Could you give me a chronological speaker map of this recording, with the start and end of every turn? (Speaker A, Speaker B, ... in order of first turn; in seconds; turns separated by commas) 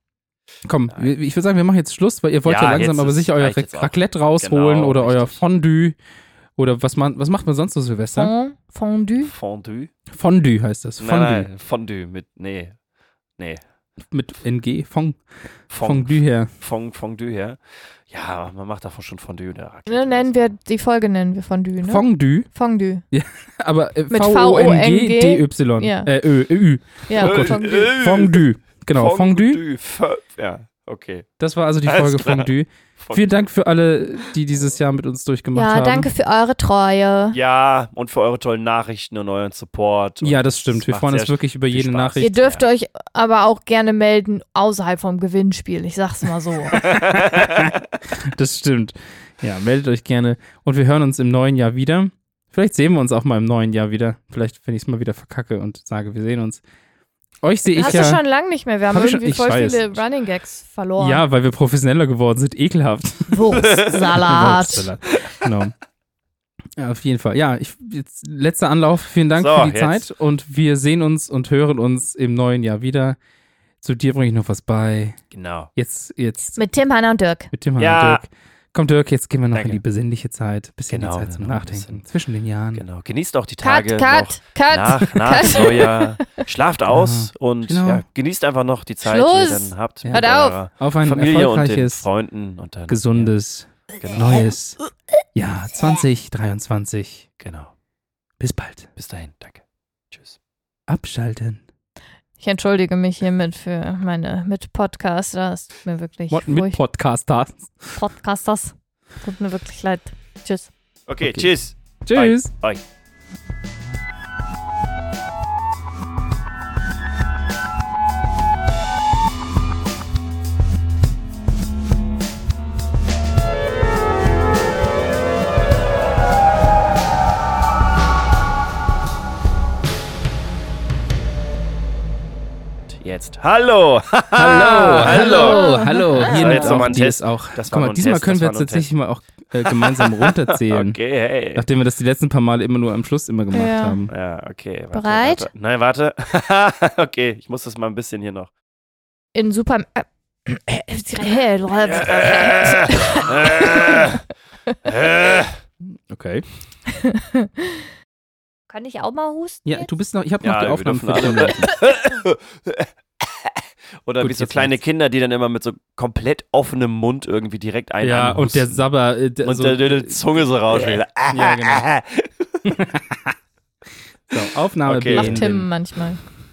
Speaker A: 0.6-6.0, Speaker B: 2.5-5.4, Speaker A: 6.6-8.3, Speaker C: 8.1-9.3, Speaker B: 9.3-9.9, Speaker A: 10.1-11.5, Speaker B: 11.0-12.8, Speaker A: 14.1-15.2, Speaker B: 15.7-20.5, Speaker A: 15.8-16.5, Speaker C: 19.9-23.0, Speaker A: 21.8-22.5, Speaker A: 23.1-29.6, Speaker C: 24.1-26.1, Speaker C: 27.1-27.9, Speaker B: 27.2-31.3, Speaker A: 31.4-36.1, Speaker B: 31.8-33.2, Speaker C: 35.5-37.4, Speaker B: 37.3-42.6, Speaker A: 40.2-42.3, Speaker C: 42.2-46.9, Speaker A: 46.8-56.6, Speaker B: 46.8-47.7, Speaker A: 57.4-58.2, Speaker C: 57.7-61.2, Speaker A: 58.9-60.0, Speaker A: 61.0-63.4, Speaker C: 63.3-64.9, Speaker B: 63.6-64.2, Speaker A: 64.2-65.7, Speaker B: 65.1-65.5, Speaker A: 66.8-73.2, Speaker B: 69.3-70.0, Speaker A: 73.8-75.2, Speaker B: 75.3-75.7, Speaker A: 75.7-76.6, Speaker C: 76.5-77.5, Speaker A: 77.5-82.8, Speaker B: 77.8-78.2, Speaker B: 79.5-79.8, Speaker B: 80.9-82.0, Speaker B: 82.7-93.3, Speaker C: 83.6-86.3, Speaker A: 86.9-88.0, Speaker C: 89.0-90.6, Speaker A: 90.0-92.0, Speaker A: 92.9-94.8, Speaker B: 94.0-94.5, Speaker A: 95.3-97.3, Speaker B: 97.4-97.7, Speaker A: 98.4-98.9, Speaker B: 99.0-100.4, Speaker A: 100.9-101.6, Speaker C: 102.4-106.8, Speaker A: 106.3-108.0, Speaker C: 108.0-110.7, Speaker B: 111.1-112.8, Speaker A: 111.2-111.5, Speaker A: 112.0-112.5, Speaker B: 132.9-135.6, Speaker A: 134.4-141.0, Speaker C: 134.5-136.9, Speaker B: 136.2-138.8, Speaker B: 139.6-141.7, Speaker A: 141.5-144.1, Speaker C: 143.5-144.0, Speaker B: 144.1-148.5, Speaker C: 144.9-145.5, Speaker C: 149.3-154.1, Speaker B: 151.8-154.2, Speaker B: 154.8-155.6, Speaker A: 156.1-156.4, Speaker C: 156.9-157.8, Speaker C: 158.7-159.9, Speaker A: 159.6-161.7, Speaker B: 160.4-168.9, Speaker A: 164.2-164.8, Speaker A: 168.0-170.2, Speaker B: 169.4-172.7, Speaker A: 170.8-171.8, Speaker A: 172.6-173.4, Speaker A: 174.3-175.7, Speaker B: 174.3-175.5, Speaker C: 175.1-176.2